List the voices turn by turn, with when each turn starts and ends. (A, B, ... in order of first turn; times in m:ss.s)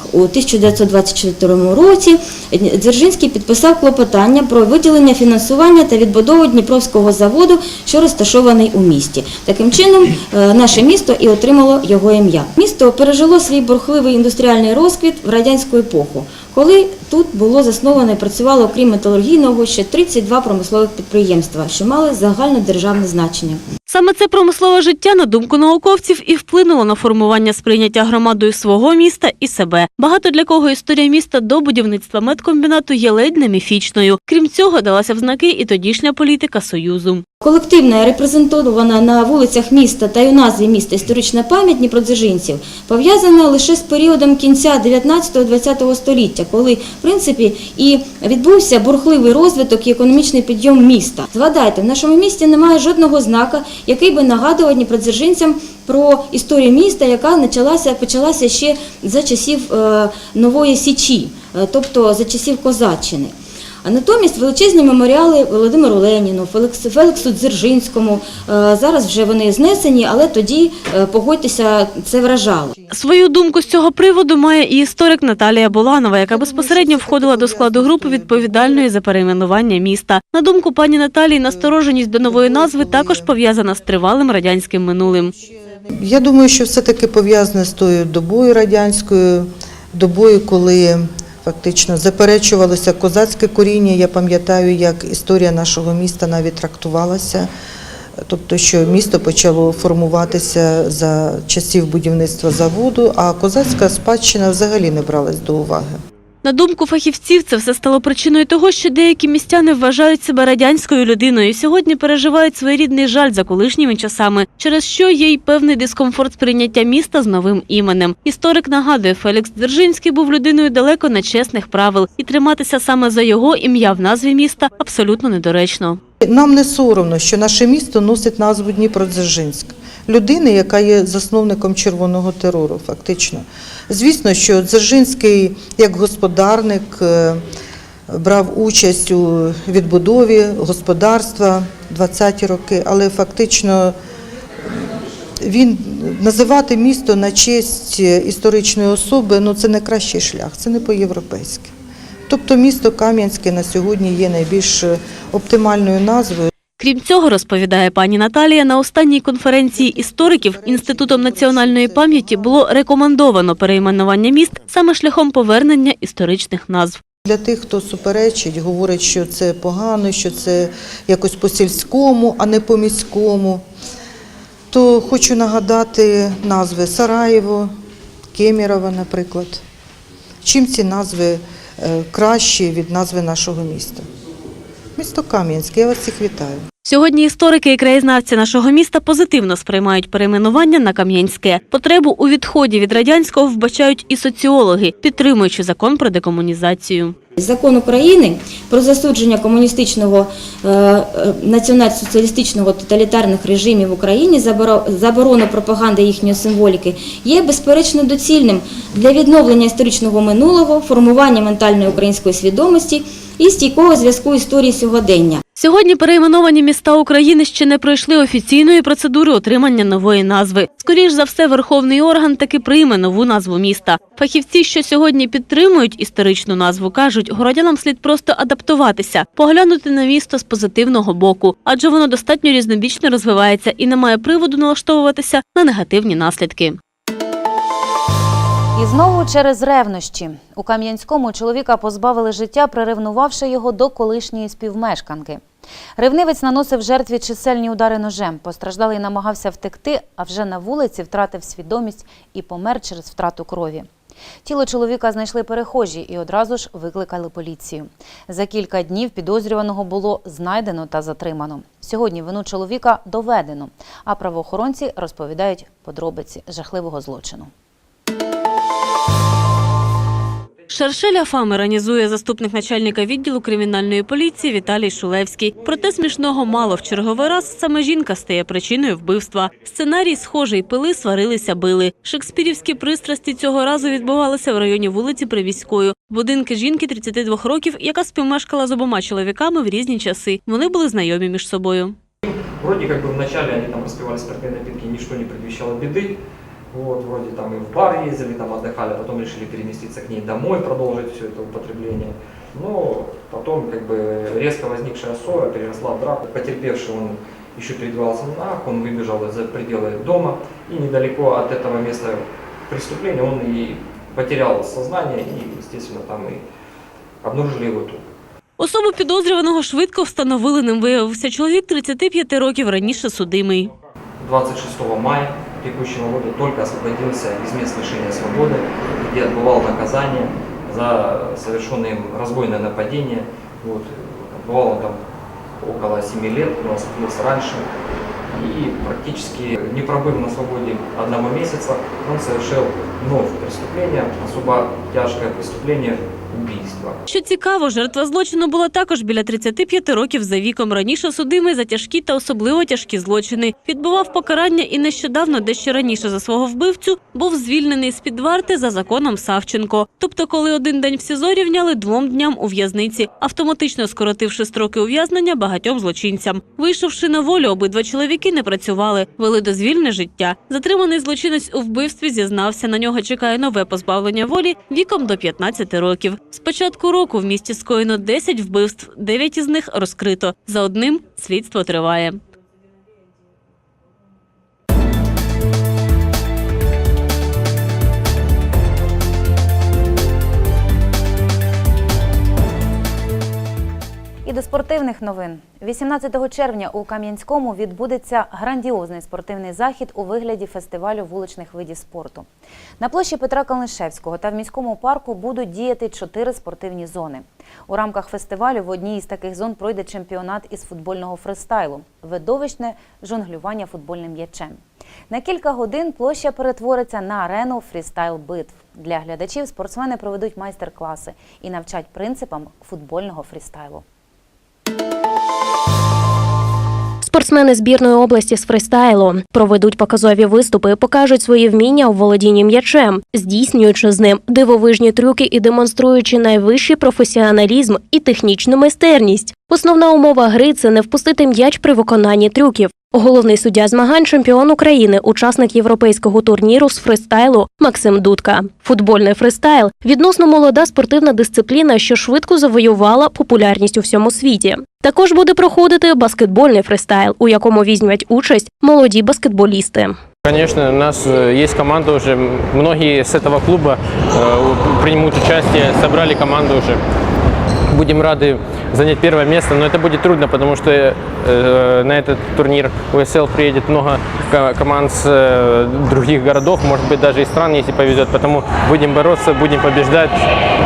0:00.2-0:23.6 A
0:23.9-0:37.2 B
0:37.5-1:03.3 A
1:03.8-1:12.7 A
1:12.9-1:25.3 B
1:16.3-1:18.8 C
1:22.3-1:23.3 C
1:25.4-1:37.5 C
1:38.3-1:46.0 C
1:46.4-2:06.0 B
2:06.2-2:17.4 C
2:18.1-2:23.9 C
2:25.4-2:31.7 C
2:32.3-2:36.5 C
2:36.8-2:47.0 B
2:39.9-2:42.6 C
2:47.2-2:53.6 C
2:54.7-2:57.7 C
2:58.3-2:59.6 C
3:00.4-3:04.0 C
3:05.0-3:06.6 C
3:06.8-3:17.2 B
3:17.4-3:35.3 A
3:35.6-3:56.8 B
3:58.7-4:05.4 D
4:06.0-4:13.9 D
4:14.4-4:27.5 D
4:30.7-4:52.0 B
4:52.2-4:56.2 E
4:56.7-5:16.4 E
5:17.2-5:18.0 E
5:18.6-5:23.7 B
5:24.2-5:35.0 E
5:35.6-5:37.6 E
5:38.3-5:47.0 E
5:47.1-6:22.2 B
6:34.2-6:42.3 D
6:42.8-7:03.8 D
7:07.0-7:40.0 F
7:40.5-7:46.8 G
7:47.7-8:00.1 G